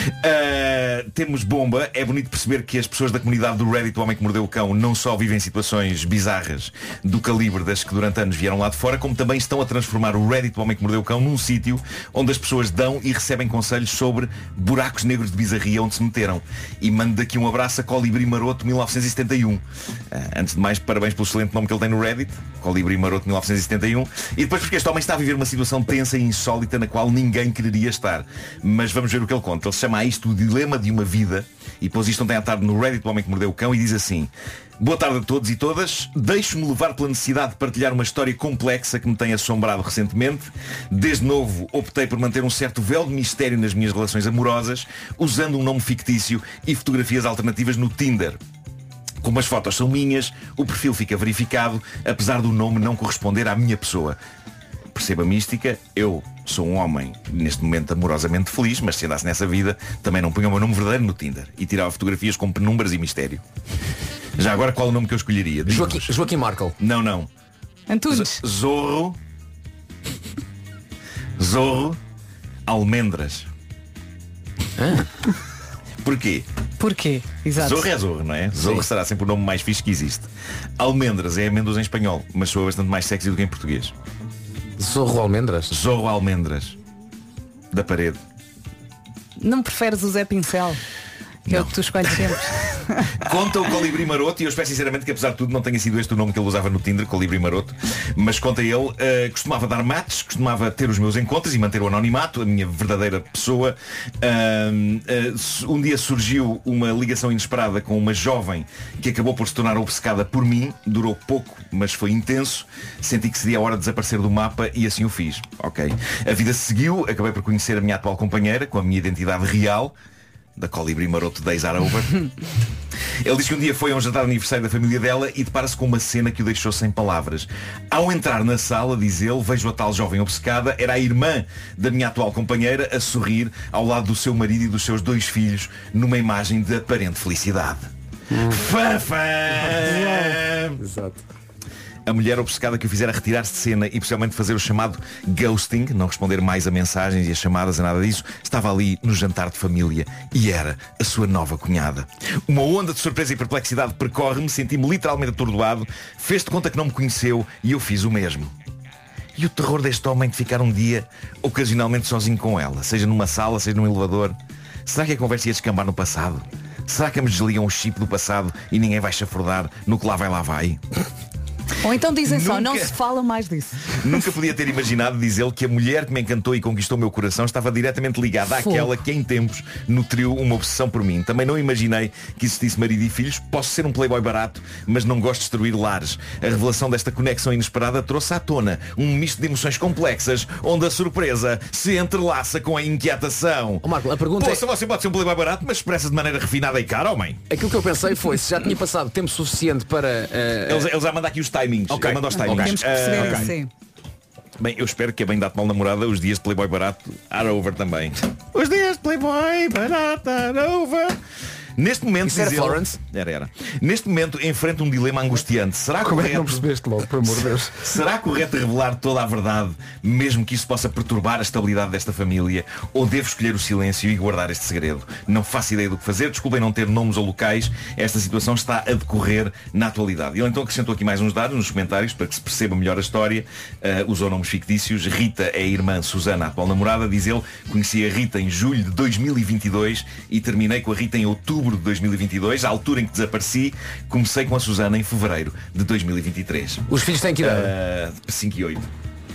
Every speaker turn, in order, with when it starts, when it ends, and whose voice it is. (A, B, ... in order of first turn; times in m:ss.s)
0:00.2-0:48.4 A
0:49.2-0:54.2 A
0:54.9-1:03.4 A
1:04.4-1:06.1 A
1:05.7-1:06.8 B
1:06.8-1:07.3 A
1:07.9-1:08.4 C
1:08.1-1:09.2 A
1:11.4-1:12.0 A
1:12.7-1:13.5 A
1:14.8-1:15.1 B
1:16.0-1:16.5 A
1:16.8-1:17.9 C
1:17.6-1:23.9 A
1:18.6-1:18.8 B
1:24.8-1:25.7 B
1:25.7-1:26.8 A
1:27.7-1:28.2 A
1:29.4-1:30.8 C
1:31.5-1:32.3 A
1:31.5-1:33.2 C
1:33.2-2:00.0 A
2:00.6-2:02.2 A
2:03.2-2:17.9 A
2:18.3-2:18.7 D
2:18.5-2:20.8 A
2:19.5-2:21.2 D
2:22.1-2:38.5 A
2:39.4-2:50.8 A
2:51.8-2:54.1 C
2:52.2-2:53.0 A
2:54.0-3:17.4 A
2:58.6-2:58.9 C
3:13.8-3:14.6 B
3:17.5-3:20.9 B
3:20.7-3:23.6 A
3:21.9-3:23.5 B
3:22.4-3:23.7 C
3:24.6-3:31.2 A
3:31.8-3:36.7 A
3:32.2-3:33.0 B
3:36.0-3:37.9 D
3:37.2-4:06.9 A
4:06.9-4:07.7 B
4:07.4-4:08.9 A